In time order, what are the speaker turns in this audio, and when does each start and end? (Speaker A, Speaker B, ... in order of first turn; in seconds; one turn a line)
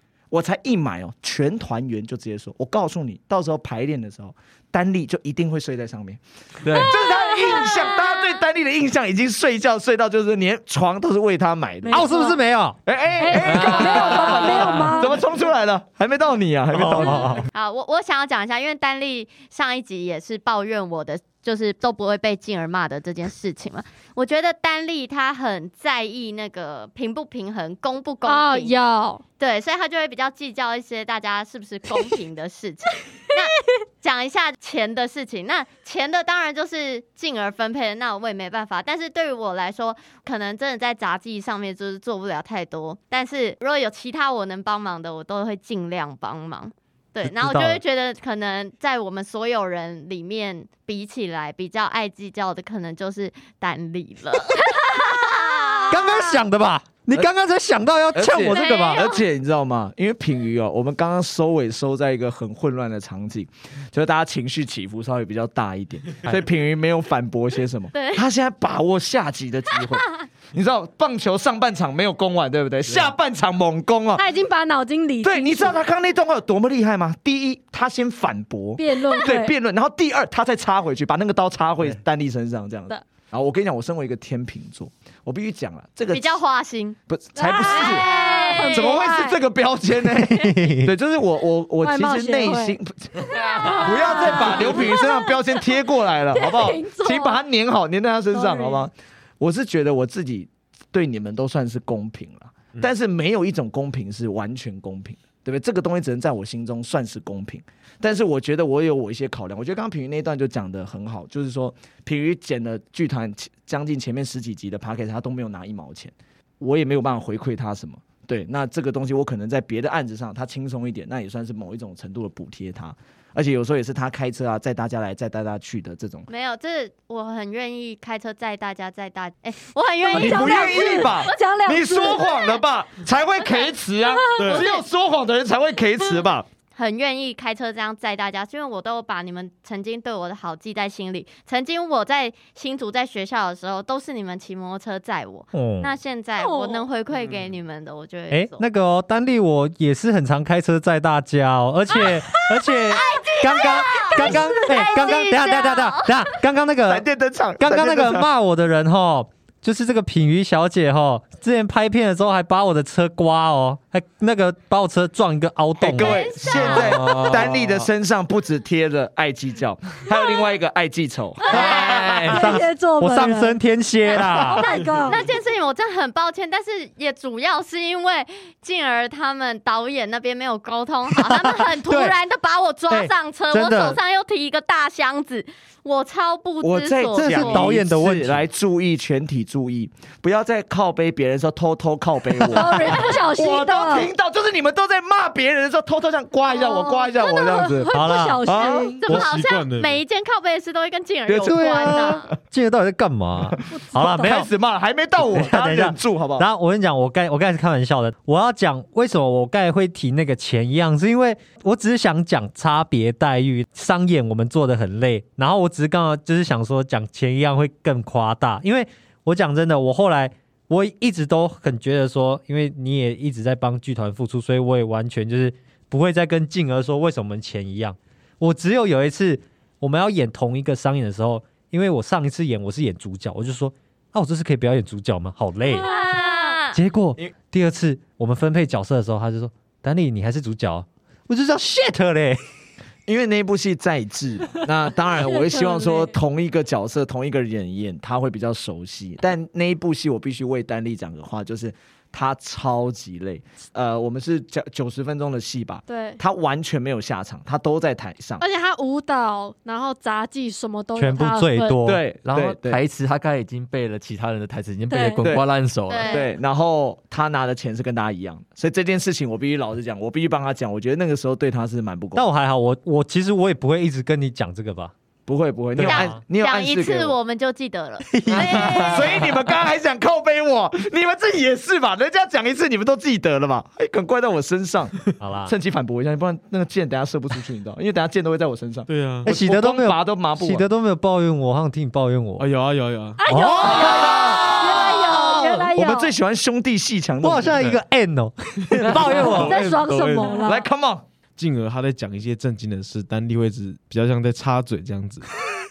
Speaker A: 0.3-12.1
Speaker B: 6.6-6.9
Speaker C: 7.5-7.9
Speaker D: 11.8-12.4
Speaker E: 11.9-12.8
Speaker A: 12.8-17.4
Speaker D: 13.2-15.2
Speaker B: 13.4-15.2
Speaker E: 16.8-17.4
Speaker C: 17.5-28.8
Speaker D: 28.3-29.2
Speaker C: 29.4-56.4
Speaker E: 47.2-47.8
Speaker E: 55.9-59.0
Speaker A: 58.1-74.2
Speaker C: 58.3-59.2
Speaker C: 67.9-68.2
Speaker D: 74.2-75.8
Speaker A: 75.2-86.3
Speaker D: 78.8-79.5
Speaker C: 86.1-87.0
Speaker A: 87.1-93.2
Speaker D: 87.4-89.4
Speaker C: 87.6-89.0
Speaker E: 90.0-90.9
Speaker D: 91.8-92.8
Speaker B: 93.3-93.8
Speaker D: 93.3-95.8
Speaker A: 93.8-126.3
Speaker D: 96.3-97.4
Speaker D: 98.3-98.9
Speaker C: 126.3-131.4
Speaker D: 130.0-132.3
Speaker A: 130.1-136.5
Speaker C: 132.0-132.3
Speaker D: 134.3-134.6
Speaker F: 134.4-134.7
Speaker C: 136.8-148.6
Speaker E: 145.5-145.9
Speaker D: 146.4-146.9
Speaker E: 148.3-157.1
Speaker C: 152.8-156.4
Speaker D: 154.1-154.6
Speaker A: 156.9-158.3
Speaker E: 157.6-166.3
Speaker A: 165.8-172.1
Speaker C: 166.0-167.2
Speaker B: 166.6-167.9
Speaker C: 171.4-172.3
Speaker D: 171.5-173.6
Speaker B: 171.6-172.6
Speaker E: 171.7-174.8
Speaker D: 174.1-175.2
Speaker C: 174.6-187.7
Speaker E: 181.1-182.1
Speaker E: 182.9-184.0
Speaker A: 186.6-198.9
Speaker E: 187.2-188.5
Speaker E: 192.4-193.1
Speaker D: 192.5-194.1
Speaker D: 196.5-199.2
Speaker E: 197.9-198.6
Speaker C: 199.0-202.3
Speaker F: 199.1-200.0
Speaker A: 201.3-202.3
Speaker E: 201.4-204.5
Speaker A: 203.5-206.5
Speaker D: 203.7-204.4
Speaker E: 205.2-235.9
Speaker C: 235.7-236.8
Speaker D: 235.9-236.5
Speaker E: 236.7-242.4
Speaker A: 243.1-258.4
Speaker D: 245.1-246.1
Speaker D: 255.9-256.2
Speaker D: 258.4-261.8
Speaker E: 261.0-262.0
Speaker A: 261.8-262.8
Speaker B: 262.2-266.2
Speaker D: 264.9-265.2
Speaker C: 265.9-266.3
Speaker A: 266.0-272.3
Speaker E: 272.1-274.9
Speaker A: 275.3-277.1
Speaker E: 275.8-276.2
Speaker C: 275.8-279.2
Speaker E: 278.1-279.3
Speaker A: 278.7-290.7
Speaker E: 285.2-285.5
Speaker F: 288.9-289.3
Speaker E: 289.2-292.5
Speaker F: 292.4-293.3
Speaker D: 293.2-296.1
Speaker E: 293.3-295.7
Speaker A: 293.5-297.7
Speaker E: 297.2-299.6
Speaker F: 298.7-300.5
Speaker B: 298.8-299.3
Speaker D: 299.3-300.7
Speaker A: 300.4-301.0
Speaker F: 301.4-305.3